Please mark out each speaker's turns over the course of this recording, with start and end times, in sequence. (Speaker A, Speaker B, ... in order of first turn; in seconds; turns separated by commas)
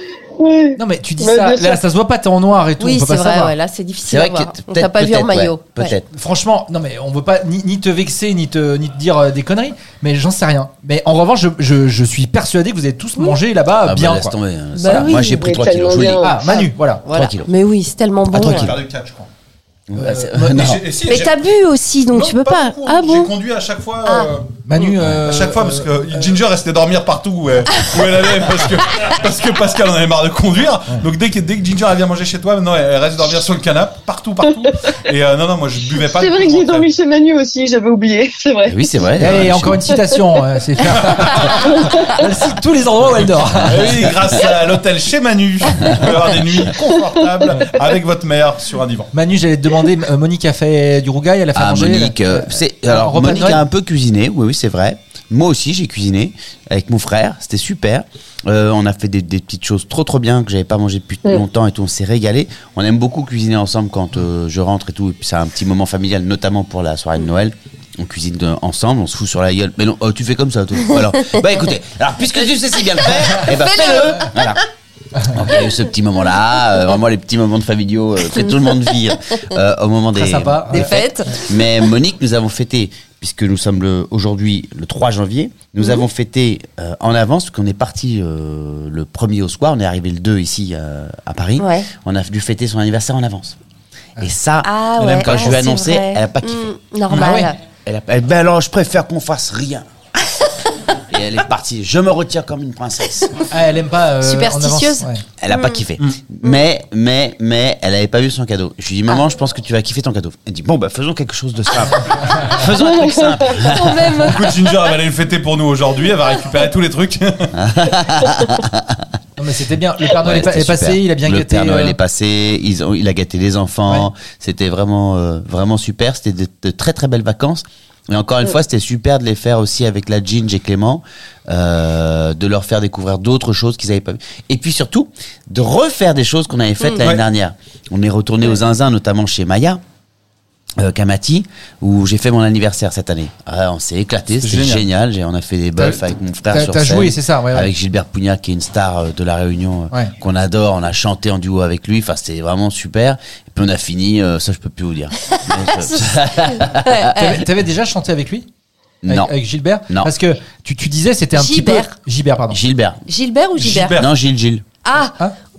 Speaker A: 0.4-1.8, Speaker B: 0.8-3.5, Speaker C: 2.8-5.9, Speaker D: 4.1-6.0, Speaker B: 6.1-14.3, Speaker D: 13.8-16.4, Speaker C: 14.7-15.4, Speaker A: 15.1-16.6, Speaker B: 16.2-17.1, Speaker C: 16.4-18.7, Speaker D: 17.1-17.5, Speaker D: 18.3-18.7, Speaker E: 18.3-19.3, Speaker D: 19.9-20.8, Speaker B: 20.0-20.7, Speaker E: 20.5-21.3, Speaker C: 21.1-23.3, Speaker E: 22.1-36.9, Speaker C: 24.0-24.9, Speaker B: 24.6-26.4, Speaker A: 36.0-38.8, Speaker D: 38.6-39.9, Speaker B: 39.2-44.0, Speaker E: 40.9-41.6, Speaker A: 41.7-42.1, Speaker E: 43.6-49.1, Speaker B: 49.1-53.6, Speaker D: 51.5-74.6, Speaker C: 73.0-74.6, Speaker D: 75.2-93.5, Speaker C: 78.4-78.6, Speaker B: 80.1-81.0, Speaker C: 80.7-81.8, Speaker C: 91.6-91.9, Speaker D: 94.2-96.7, Speaker C: 94.6-97.6, Speaker B: 97.1-97.5, Speaker D: 97.8-99.9, Speaker D: 101.1-103.4, Speaker B: 103.5-105.2, Speaker C: 104.2-105.8, Speaker D: 105.4-114.2, Speaker A: 112.8-113.7, Speaker C: 113.7-114.6, Speaker E: 114.2-117.5, Speaker D: 117.5-119.0, Speaker B: 119.4-122.0, Speaker D: 120.1-139.8, Speaker D: 140.8-157.2, Speaker E: 144.4-144.8, Speaker B: 146.5-147.7, Speaker C: 155.3-157.4, Speaker B: 157.2-158.5, Speaker D: 159.0-159.3, Speaker B: 159.1-162.6, Speaker C: 161.3-161.9, Speaker D: 162.5-163.0, Speaker C: 163.1-164.0, Speaker E: 163.6-164.1, Speaker D: 163.9-164.7, Speaker C: 164.8-165.2